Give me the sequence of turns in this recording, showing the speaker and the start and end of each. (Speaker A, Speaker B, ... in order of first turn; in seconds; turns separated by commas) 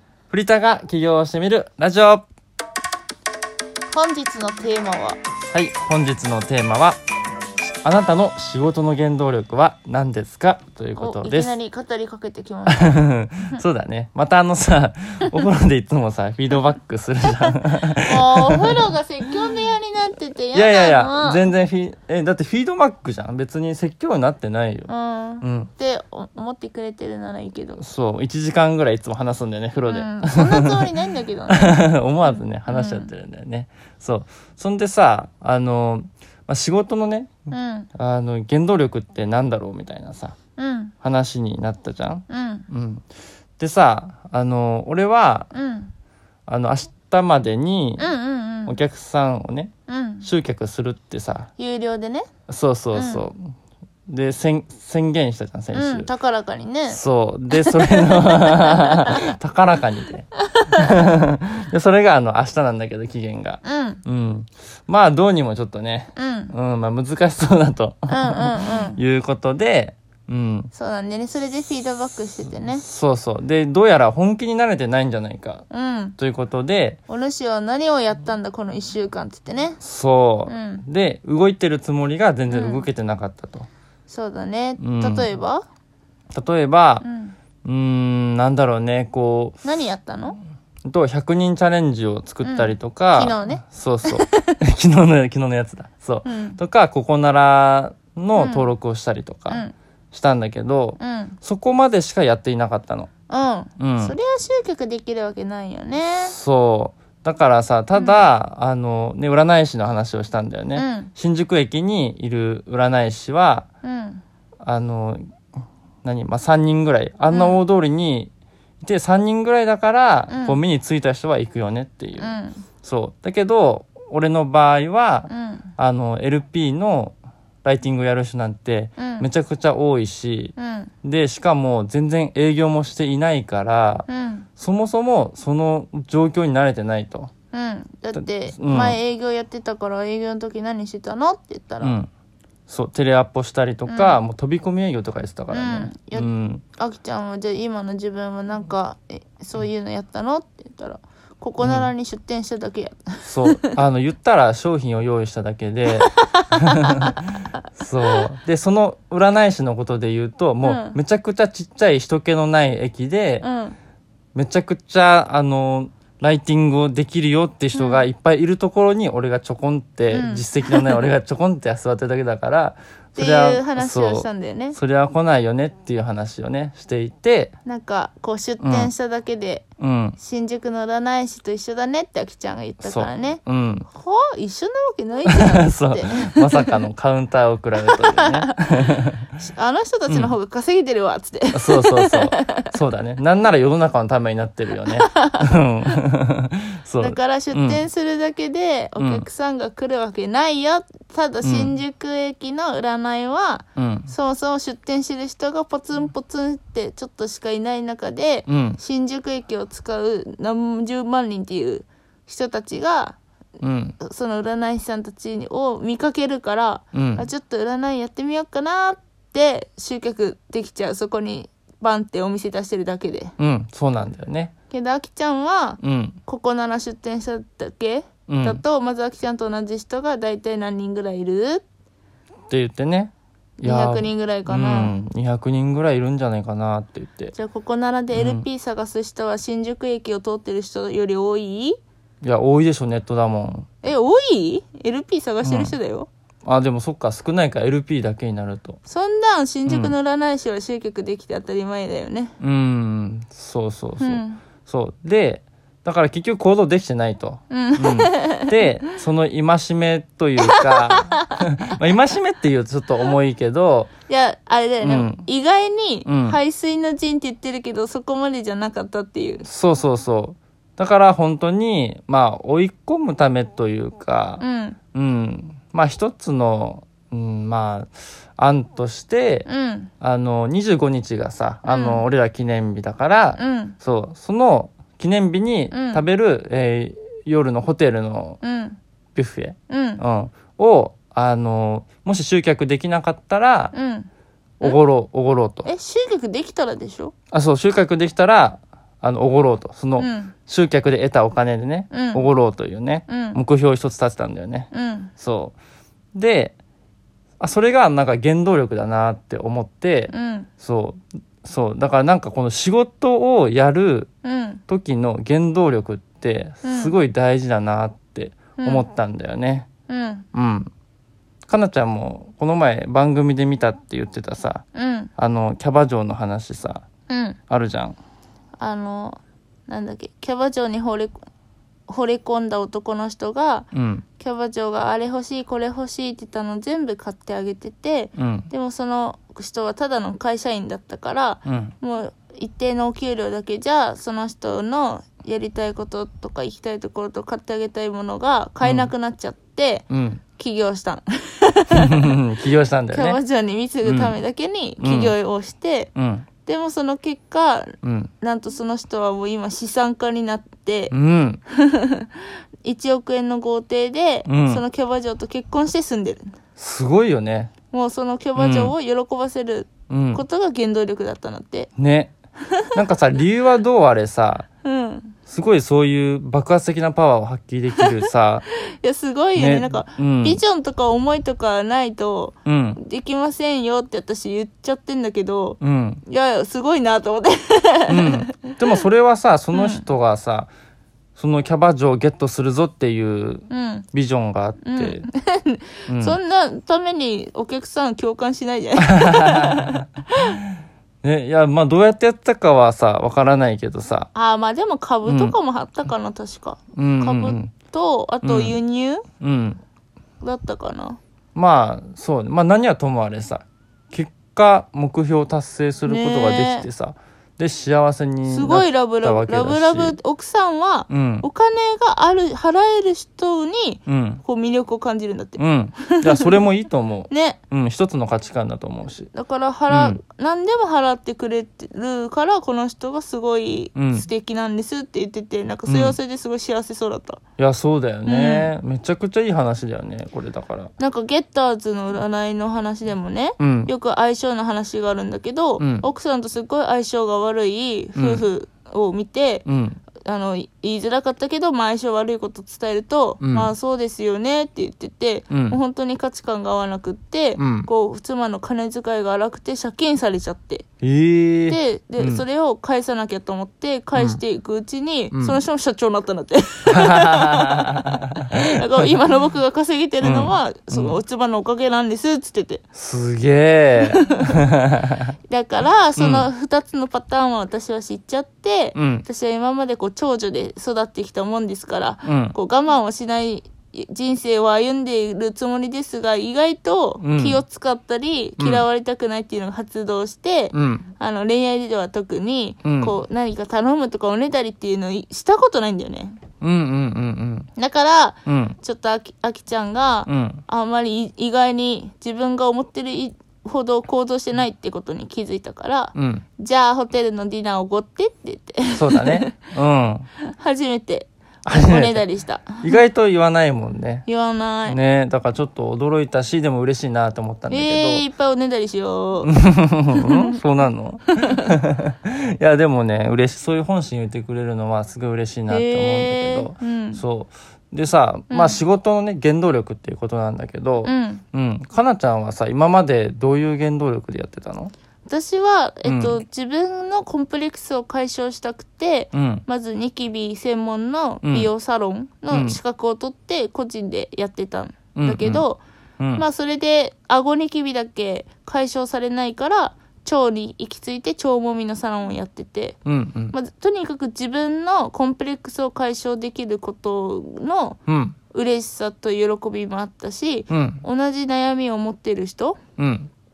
Speaker A: 0.3-2.2, Speaker B: 3.9-5.2, Speaker A: 5.5-7.0, Speaker A: 7.8-11.5, Speaker B: 10.9-13.0, Speaker A: 12.7-18.9, Speaker B: 18.1-21.4, Speaker A: 20.5-25.7, Speaker B: 24.9-27.8, Speaker A: 27.8-30.9, Speaker B: 29.9-31.8, Speaker A: 31.5-37.3, Speaker B: 32.7-33.1, Speaker B: 37.5-37.9, Speaker A: 37.9-40.4, Speaker B: 40.6-40.9, Speaker A: 41.0-43.0, Speaker B: 42.3-42.7, Speaker A: 43.6-45.5, Speaker B: 45.5-45.9, Speaker A: 46.5-48.1, Speaker B: 48.0-48.8, Speaker A: 48.6-51.5, Speaker B: 49.9-50.3, Speaker B: 51.6-52.3, Speaker A: 52.5-53.5, Speaker B: 52.9-53.2, Speaker A: 54.1-56.1, Speaker B: 55.7-57.0, Speaker A: 56.9-70.7, Speaker B: 57.5-59.2, Speaker B: 60.5-60.9, Speaker B: 63.6-64.0, Speaker B: 66.2-66.5, Speaker B: 68.1-69.0, Speaker B: 70.7-72.8, Speaker A: 72.4-75.6, Speaker B: 75.7-76.2, Speaker A: 76.2-77.0, Speaker B: 77.1-79.8, Speaker A: 79.8-83.7, Speaker B: 80.5-80.8, Speaker B: 82.5-82.9, Speaker B: 84.1-85.6, Speaker A: 84.8-85.3, Speaker A: 86.3-87.1, Speaker B: 87.0-87.3, Speaker A: 87.6-89.6, Speaker B: 89.6-90.4, Speaker A: 90.8-103.1, Speaker B: 92.4-94.5, Speaker B: 96.2-96.6, Speaker B: 98.3-98.7, Speaker B: 99.5-99.7, Speaker B: 101.0-101.4, Speaker B: 103.3-106.3, Speaker A: 103.8-104.2, Speaker A: 106.2-113.7, Speaker B: 107.9-108.2, Speaker B: 110.7-111.1, Speaker B: 113.8-114.2, Speaker A: 114.6-115.2, Speaker A: 116.0-118.3, Speaker B: 117.3-117.6, Speaker A: 118.8-137.3, Speaker B: 120.3-120.6, Speaker B: 122.2-122.6, Speaker B: 125.3-125.7, Speaker B: 129.0-129.3, Speaker B: 130.6-130.9, Speaker B: 134.1-134.5, Speaker B: 137.5-142.0, Speaker A: 138.1-139.0, Speaker A: 141.8-142.1, Speaker A: 142.7-146.6, Speaker B: 143.9-144.2, Speaker B: 145.5-153.8, Speaker A: 151.6-151.9, Speaker A: 153.2-163.5, Speaker B: 156.0-157.1, Speaker B: 160.6-161.0, Speaker B: 163.4-163.8, Speaker A: 164.3-177.5, Speaker B: 167.7-168.1, Speaker B: 170.1-171.0, Speaker B: 173.1-174.8, Speaker B: 177.6-179.6, Speaker A: 178.6-178.9, Speaker A: 179.8-180.2, Speaker B: 180.2-186.7, Speaker A: 182.8-183.9, Speaker A: 185.3-189.3, Speaker B: 187.8-188.5, Speaker B: 189.4-192.7, Speaker A: 190.1-190.3, Speaker A: 191.5-197.8, Speaker B: 194.8-195.4, Speaker B: 197.0-213.2, Speaker A: 199.0-199.2, Speaker A: 201.4-201.7, Speaker A: 203.8-204.1, Speaker A: 208.5-208.8, Speaker A: 213.6-214.0, Speaker B: 214.0-223.3, Speaker A: 216.9-217.2, Speaker A: 223.4-224.5, Speaker B: 224.7-231.6, Speaker A: 225.8-226.2, Speaker A: 228.3-228.6, Speaker A: 232.5-237.3, Speaker B: 233.6-234.9, Speaker B: 237.3-241.8, Speaker A: 238.1-238.4, Speaker A: 242.2-243.7, Speaker B: 243.8-246.1, Speaker A: 245.4-245.8, Speaker A: 246.4-248.8, Speaker B: 248.9-252.3, Speaker A: 249.7-249.9, Speaker A: 252.4-263.9, Speaker B: 254.0-254.4, Speaker B: 257.5-258.6, Speaker B: 260.4-261.2, Speaker B: 264.1-269.4, Speaker A: 264.8-265.2, Speaker A: 266.0-266.4, Speaker A: 269.4-279.5, Speaker B: 274.4-274.8, Speaker B: 279.4-279.9, Speaker A: 280.0-288.4, Speaker B: 281.6-282.0, Speaker B: 283.4-283.8, Speaker B: 285.7-286.0, Speaker B: 288.4-288.8, Speaker A: 289.1-293.7, Speaker B: 289.7-290.0, Speaker B: 293.7-294.1, Speaker A: 294.6-295.7, Speaker B: 295.6-297.1, Speaker A: 297.3-305.5, Speaker B: 300.0-300.3, Speaker B: 301.9-302.2, Speaker B: 303.1-303.4, Speaker B: 304.7-305.1, Speaker A: 306.1-306.5, Speaker A: 307.4-314.1, Speaker B: 310.1-310.5, Speaker B: 314.2-314.6, Speaker A: 314.7-319.7, Speaker B: 316.6-316.9, Speaker B: 318.6-318.8, Speaker B: 319.9-320.2, Speaker A: 320.3-320.7, Speaker A: 321.5-324.6, Speaker B: 324.7-325.1, Speaker A: 325.2-326.9, Speaker B: 327.1-327.4, Speaker A: 327.5-328.0, Speaker B: 328.6-331.2, Speaker B: 331.9-333.7, Speaker A: 333.7-334.0, Speaker B: 334.2-349.8, Speaker A: 338.2-338.5, Speaker A: 341.4-341.7, Speaker A: 348.6-348.9, Speaker A: 349.9-350.2, Speaker B: 350.4-352.1, Speaker A: 351.7-353.2, Speaker B: 352.9-355.9, Speaker A: 353.8-354.1, Speaker A: 354.8-355.1, Speaker A: 355.9-356.2, Speaker B: 356.4-360.9, Speaker A: 357.8-358.1, Speaker A: 360.9-361.4, Speaker B: 361.5-362.1, Speaker B: 362.6-366.3, Speaker A: 364.2-364.6, Speaker A: 366.6-367.5, Speaker B: 367.7-371.7, Speaker A: 368.4-368.7, Speaker A: 369.9-370.2, Speaker A: 371.8-372.1, Speaker A: 372.7-374.5, Speaker B: 374.6-375.1, Speaker A: 375.2-378.4, Speaker B: 378.6-388.8, Speaker A: 379.4-380.4, Speaker A: 382.4-382.8, Speaker A: 385.6-386.0, Speaker A: 387.9-390.5, Speaker B: 389.5-389.8, Speaker A: 391.1-395.0, Speaker B: 393.5-393.9, Speaker B: 394.6-400.3, Speaker A: 395.9-396.2, Speaker A: 398.8-404.1, Speaker B: 404.1-409.0, Speaker A: 405.0-405.4, Speaker A: 406.7-407.5, Speaker A: 408.2-408.6, Speaker A: 409.2-409.6, Speaker B: 410.2-411.0, Speaker A: 411.3-420.0, Speaker B: 415.9-416.7, Speaker B: 418.2-426.4, Speaker A: 420.9-421.3, Speaker A: 423.9-424.2, Speaker A: 425.4-429.1, Speaker B: 427.1-427.4, Speaker B: 429.1-437.2, Speaker A: 429.7-430.0, Speaker A: 433.7-434.1, Speaker A: 435.7-436.0, Speaker A: 437.4-440.7, Speaker B: 438.1-438.5, Speaker B: 440.8-449.4, Speaker A: 443.4-443.7, Speaker A: 445.6-445.9, Speaker A: 447.9-448.2, Speaker A: 449.4-449.8, Speaker B: 450.0-460.6, Speaker A: 453.2-453.5, Speaker A: 455.3-455.6, Speaker A: 457.4-457.7, Speaker A: 460.8-462.2, Speaker B: 461.5-472.6, Speaker A: 465.1-465.4, Speaker A: 466.7-468.0, Speaker A: 470.0-471.0, Speaker A: 472.7-475.1, Speaker B: 473.8-474.4, Speaker B: 475.3-496.2, Speaker A: 476.0-476.3, Speaker A: 478.7-479.0, Speaker A: 482.0-482.3, Speaker A: 487.0-487.4, Speaker A: 488.4-488.6, Speaker A: 490.5-490.9, Speaker A: 492.6-493.0, Speaker A: 496.4-497.5, Speaker B: 497.6-509.4, Speaker A: 498.2-498.6, Speaker A: 500.1-500.4, Speaker A: 505.9-506.2, Speaker A: 508.7-510.1, Speaker B: 510.2-512.8, Speaker A: 511.4-512.0, Speaker A: 512.6-514.1, Speaker B: 514.0-514.8, Speaker A: 514.6-518.0, Speaker B: 517.5-519.3, Speaker A: 519.2-534.7, Speaker B: 519.9-520.4, Speaker B: 521.1-521.5, Speaker B: 525.5-527.0, Speaker B: 528.3-528.6, Speaker B: 530.8-531.2, Speaker B: 535.0-545.6, Speaker A: 535.8-536.2, Speaker A: 539.1-539.4, Speaker A: 541.2-541.5, Speaker A: 542.3-542.6, Speaker A: 544.9-545.5, Speaker B: 546.1-552.8, Speaker A: 552.8-553.4, Speaker B: 553.3-557.8, Speaker A: 557.9-558.1, Speaker B: 558.3-562.6, Speaker A: 560.5-560.8, Speaker A: 562.8-563.1